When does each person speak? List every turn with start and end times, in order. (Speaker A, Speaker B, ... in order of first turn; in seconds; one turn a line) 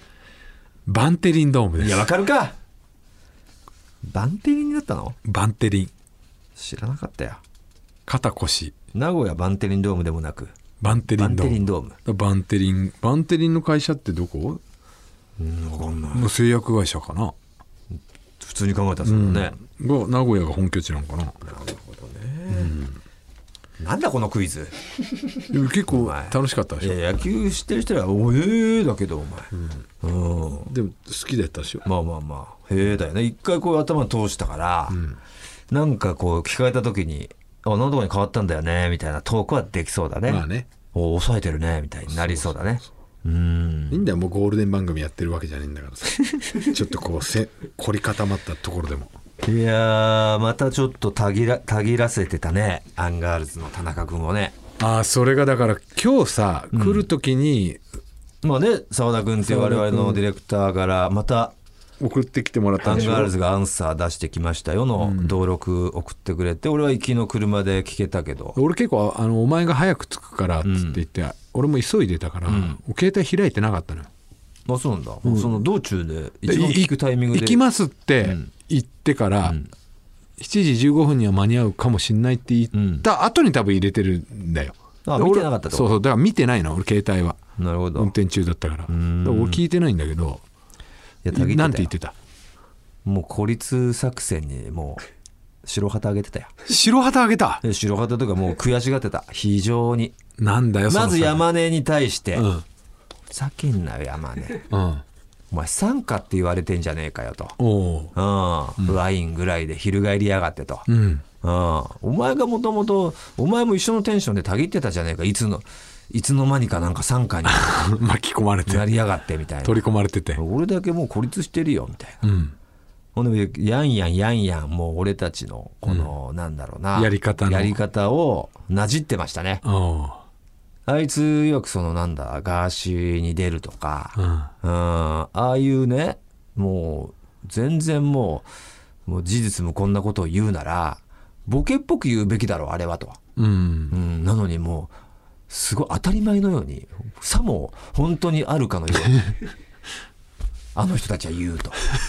Speaker A: 0.9-2.1
Speaker B: 1.8-2.6
Speaker B: 4.1-5.2
Speaker A: 5.2-5.9
Speaker B: 6.6-7.4
Speaker A: 8.1-8.8
Speaker B: 8.9-12.0
Speaker A: 10.8-14.6
Speaker B: 15.4-16.3
Speaker A: 16.1-17.3
Speaker B: 17.9-19.6
Speaker A: 19.0-21.4
Speaker B: 21.4-22.7
Speaker A: 22.5-23.0
Speaker B: 23.8-24.8
Speaker A: 25.5-27.0
Speaker B: 25.9-29.5
Speaker A: 29.5-29.8
Speaker B: 30.0-30.7
Speaker A: 30.7-31.9
Speaker B: 31.9-35.0
Speaker A: 34.9-35.2
Speaker B: 35.7-44.1
Speaker A: 40.3-40.7
Speaker A: 42.1-42.9
Speaker A: 43.9-49.1
Speaker B: 49.4-54.6
Speaker A: 54.8-57.8
Speaker B: 56.7-57.1
Speaker B: 58.4-61.5
Speaker A: 59.4-60.2
Speaker A: 62.0-63.3
Speaker B: 62.8-68.6
Speaker A: 65.0-65.4
Speaker A: 68.6-74.1
Speaker B: 70.7-71.0
Speaker B: 72.5-72.8
Speaker B: 74.7-77.6
Speaker A: 75.2-75.5
Speaker A: 76.5-79.6
Speaker B: 79.5-79.7
Speaker A: 80.4-90.4
Speaker B: 82.7-83.1
Speaker B: 85.1-86.0
Speaker B: 87.6-88.1
Speaker B: 88.9-89.6
Speaker B: 91.2-91.9
Speaker A: 91.3-92.1
Speaker B: 93.0-95.0
Speaker B: 95.6-96.5
Speaker A: 96.7-97.6
Speaker B: 97.6-100.2
Speaker A: 100.4-101.5
Speaker B: 100.9-102.5
Speaker A: 102.3-102.6
Speaker B: 103.3-104.7
Speaker A: 104.7-105.0
Speaker B: 105.5-107.6
Speaker A: 107.6-108.1
Speaker B: 108.2-110.9
Speaker A: 110.9-111.2
Speaker B: 111.4-117.7
Speaker A: 117.5-118.9
Speaker B: 118.7-122.2
Speaker A: 119.6-120.4
Speaker A: 122.2-122.5
Speaker B: 123.2-129.6
Speaker A: 125.9-126.1
Speaker A: 127.0-127.8
Speaker A: 129.6-130.2
Speaker B: 130.9-138.5
Speaker A: 134.2-134.5
Speaker B: 139.1-143.2
Speaker A: 143.4-144.0
Speaker B: 143.9-144.9
Speaker B: 145.5-149.3
Speaker B: 150.8-151.8